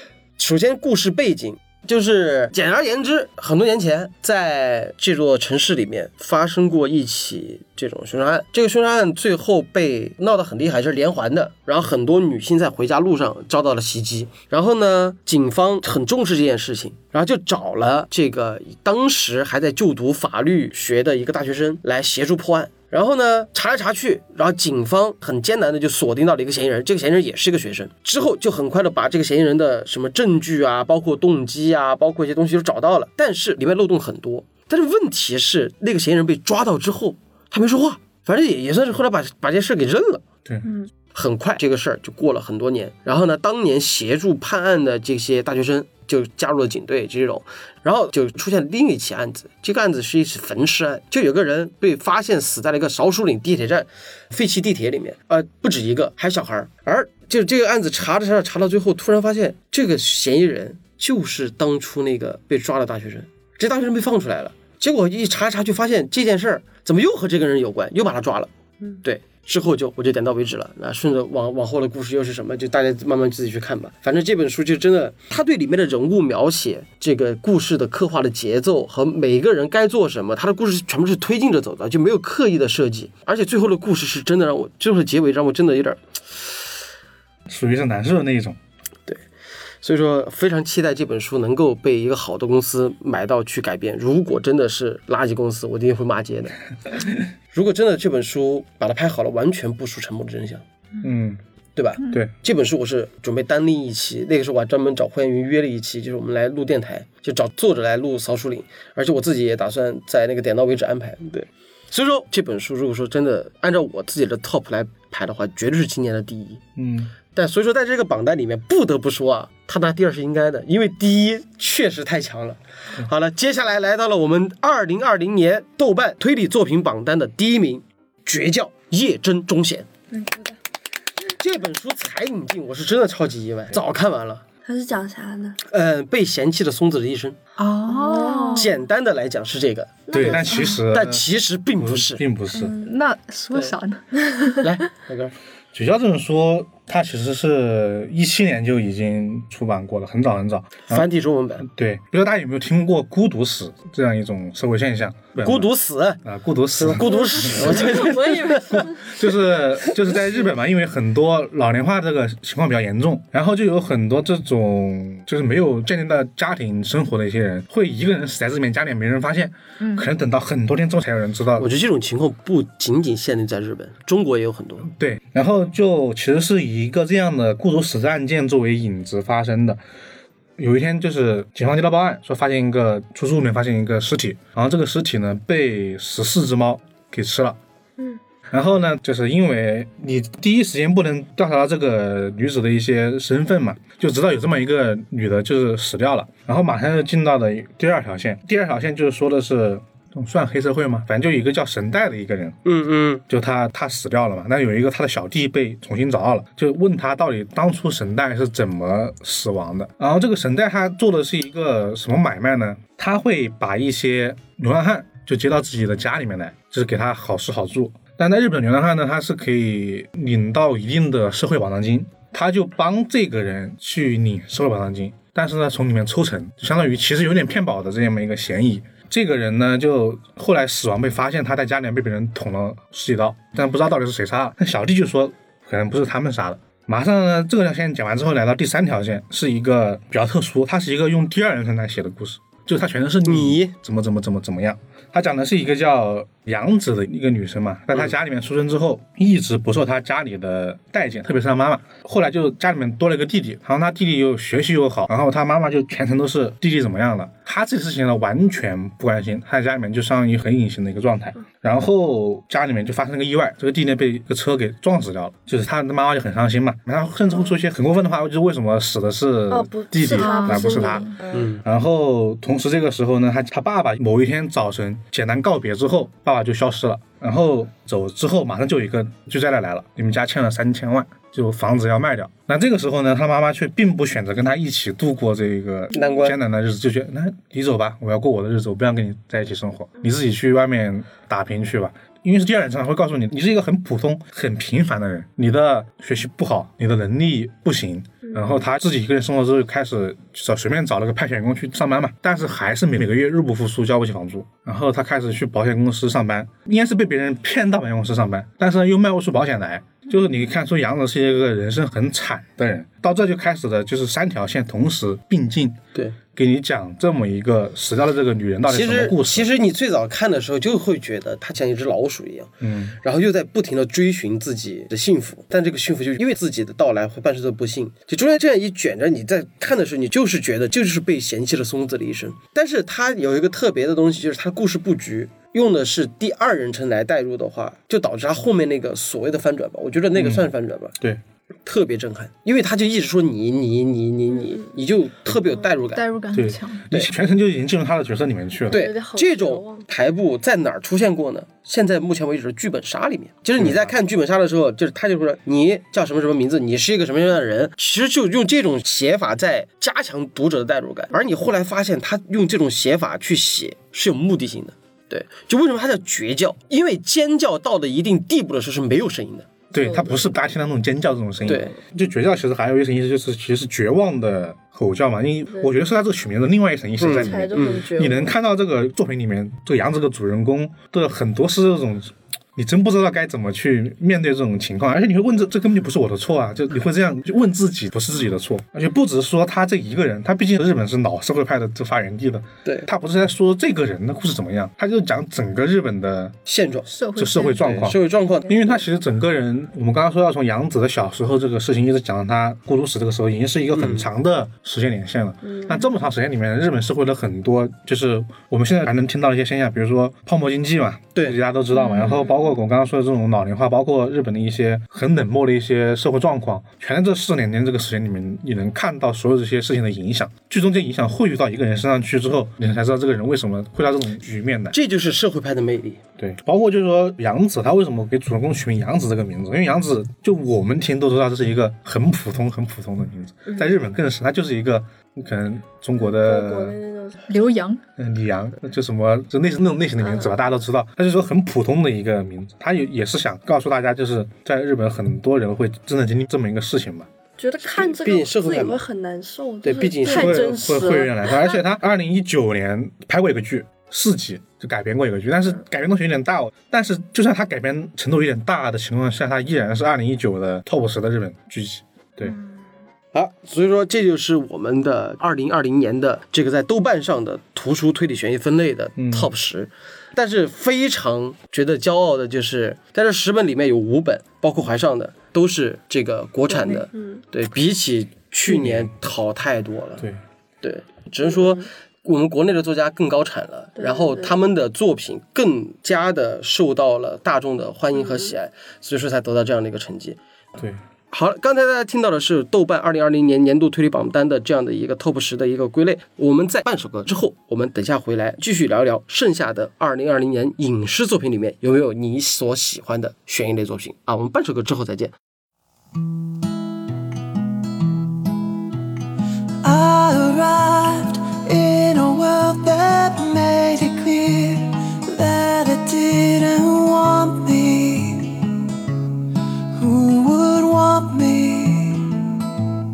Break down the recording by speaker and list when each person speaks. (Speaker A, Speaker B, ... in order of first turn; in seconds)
Speaker A: 0.4-40.2, 41.1-68.5, 69.0-86.0, 89.8-96.5, 97.5-100.6, 101.8-116.6, 117.3-129.9, 131.3-134.4, 135.6-137.4, 138.5-142.2, 144.6-145.3, 150.9-151.7, 155.4-156.2, 156.7-159.0, 171.6-174.9, 202.6-203.2, 243.2-243.7, 271.3-271.6, 285.9-286.4, 318.7-340.9, 341.7-346.1, 348.7-369.5, 371.4-371.8, 377.0-377.9, 396.4-396.9, 397.6-398.8, 403.7-404.1, 424.7-426.0, 447.6-448.8, 449.6-450.5, 463.1-480.1, 480.6-490.2, 491.1-505.1
Speaker B: 87.5-88.6, 101.0-101.4, 102.0-102.3, 116.8-117.1, 140.1-141.2, 141.8-142.8, 145.7-151.1, 151.6-155.7, 156.2-158.0, 158.7-171.7, 174.8-179.8, 180.6-187.6, 188.5-202.6, 203.3-315.8, 316.3-319.5, 322.6-323.0, 340.1-341.2, 346.3-348.9, 353.6-353.9, 369.7-396.4, 397.1-424.8, 426.2-436.8, 438.0-447.1, 450.1-462.4, 469.0-469.3, 478.4-478.9
Speaker C: 130.1-130.5, 134.6-135.6, 137.9-138.7, 140.1-140.8, 157.0-159.2, 269.5-271.4, 348.7-349.9, 369.8-370.3, 377.1-378.4, 405.4-405.9, 436.0-437.6, 440.0-440.4, 447.4-451.6, 476.6-477.2, 483.8-484.4
Speaker D: 137.6-138.7, 142.6-144.6, 169.8-170.1, 270.1-271.1, 345.9-346.9, 396.9-397.7, 437.3-437.8
Speaker E: 509.6-518.7, 519.7-522.4